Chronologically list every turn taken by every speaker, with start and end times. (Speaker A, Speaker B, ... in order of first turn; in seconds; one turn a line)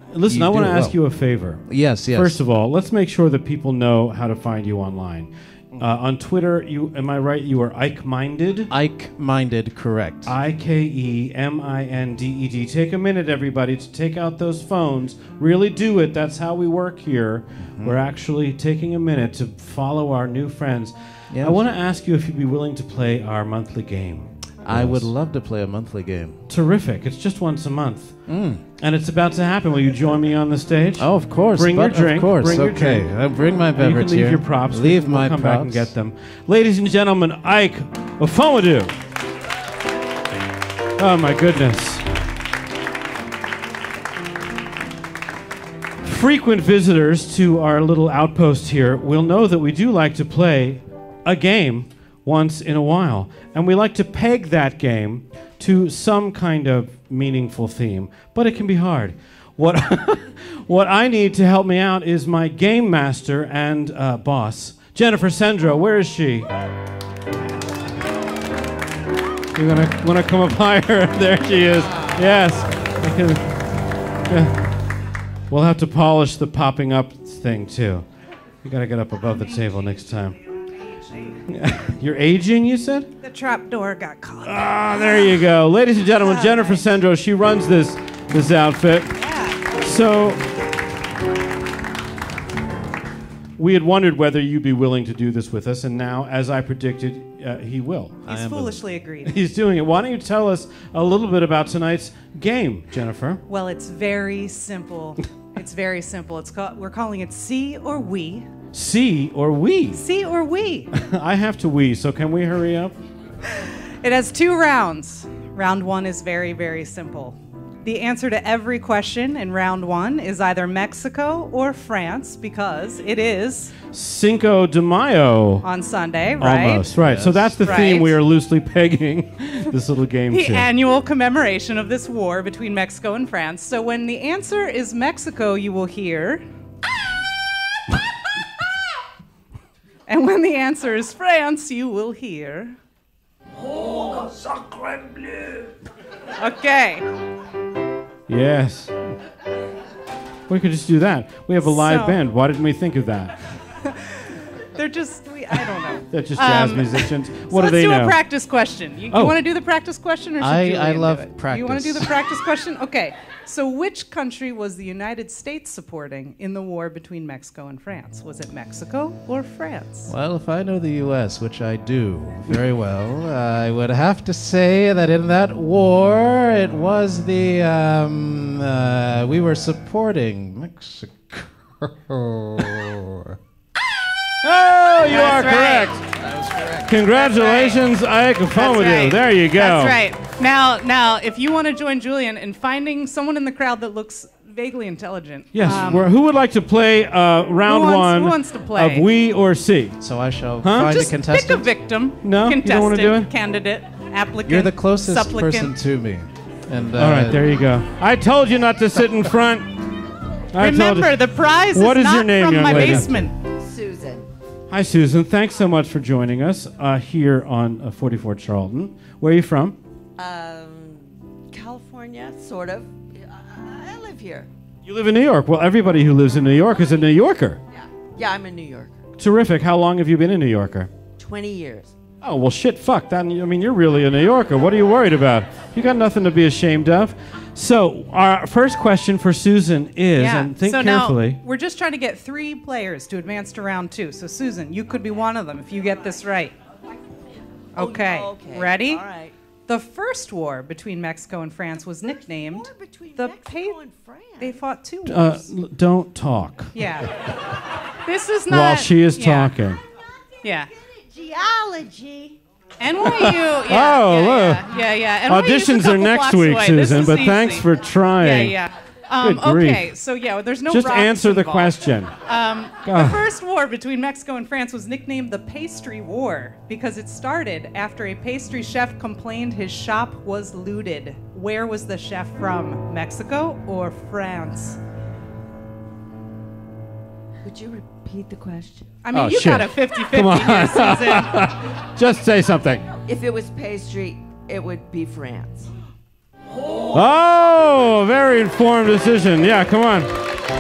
Speaker A: 0.1-8.7
Speaker B: 0.2-1.0
Speaker B: 1.6-2.4
Speaker B: 8.7-10.3
Speaker A: 10.3-25.1
Speaker B: 17.7-18.0
Speaker B: 21.3-21.6
Speaker B: 24.6-26.4
Speaker A: 26.5-33.1
Speaker B: 28.3-28.6
Speaker B: 31.0-35.9
Speaker A: 33.7-39.0
Speaker A: 41.0-42.0
Speaker A: 46.0-66.5
Speaker A: 69.5-73.5
Speaker A: 74.3-74.6
Speaker A: 75.5-78.1
Speaker A: 78.6-80.4
Speaker A: 81.5-83.1
Speaker C: 83.2-85.5
Speaker A: 84.4-89.1
Speaker C: 86.1-86.8
Speaker C: 89.2-89.6
Speaker A: 89.8-90.4
Speaker A: 93.6-98.3
Speaker C: 98.3-99.4
Speaker B: 98.3-98.8
Speaker A: 99.2-103.4
Speaker C: 103.5-108.5
Speaker A: 108.7-110.0
Speaker C: 109.9-110.9
Speaker A: 110.9-112.9
Speaker C: 113.7-123.8
Speaker A: 123.9-125.7
Speaker C: 125.6-126.9
Speaker A: 126.4-130.7
Speaker B: 126.9-127.6
Speaker C: 127.6-128.2
Speaker C: 130.3-136.4
Speaker C: 140.1-142.8
Speaker C: 146.4-147.1
Speaker A: 148.3-149.2
Speaker A: 150.5-153.5
Speaker C: 151.6-152.2
Speaker C: 154.7-170.1
Speaker A: 156.1-158.2
Speaker A: 159.1-159.4
Speaker B: 160.4-162.1
Speaker B: 170.1-183.4
Speaker A: 184.4-186.0
Speaker C: 185.0-186.0
Speaker B: 186.2-187.0
Speaker A: 186.9-190.0
Speaker C: 187.1-187.9
Speaker C: 188.5-196.1
Speaker A: 195.5-200.0
Speaker C: 197.6-199.1
Speaker B: 200.0-201.7
Speaker A: 200.6-201.0
Speaker C: 200.8-205.7
Speaker A: 202.2-203.3
Speaker B: 204.5-207.5
Speaker A: 207.0-209.7
Speaker A: 210.5-213.3
Speaker C: 210.6-213.3
Speaker B: 212.8-213.0
Speaker D: 213.5-214.3
Speaker A: 214.7-219.8
Speaker D: 220.2-224.5
Speaker A: 224.8-227.6
Speaker D: 227.7-229.0
Speaker A: 229.2-230.9
Speaker D: 231.2-231.9
Speaker A: 232.2-241.4
Speaker C: 240.2-246.6
Speaker D: 247.7-249.3
Speaker C: 247.8-249.0
Speaker C: 249.7-253.8
Speaker D: 252.0-254.7
Speaker C: 254.4-255.5
Speaker A: 255.1-256.8
Speaker C: 256.8-257.1
Speaker C: 258.1-259.5
Speaker A: 258.5-259.8
Speaker C: 260.4-260.7
Speaker D: 260.8-262.4
Speaker C: 262.8-267.7
Speaker A: 263.0-264.7
Speaker A: 265.3-268.6
Speaker C: 268.2-284.8
Speaker A: 269.2-269.9
Speaker A: 270.7-272.1
Speaker A: 272.9-273.2
Speaker D: 287.4-288.9
Speaker C: 289.0-291.4
Speaker A: 289.1-292.8
Speaker D: 293.1-295.7
Speaker A: 296.9-300.1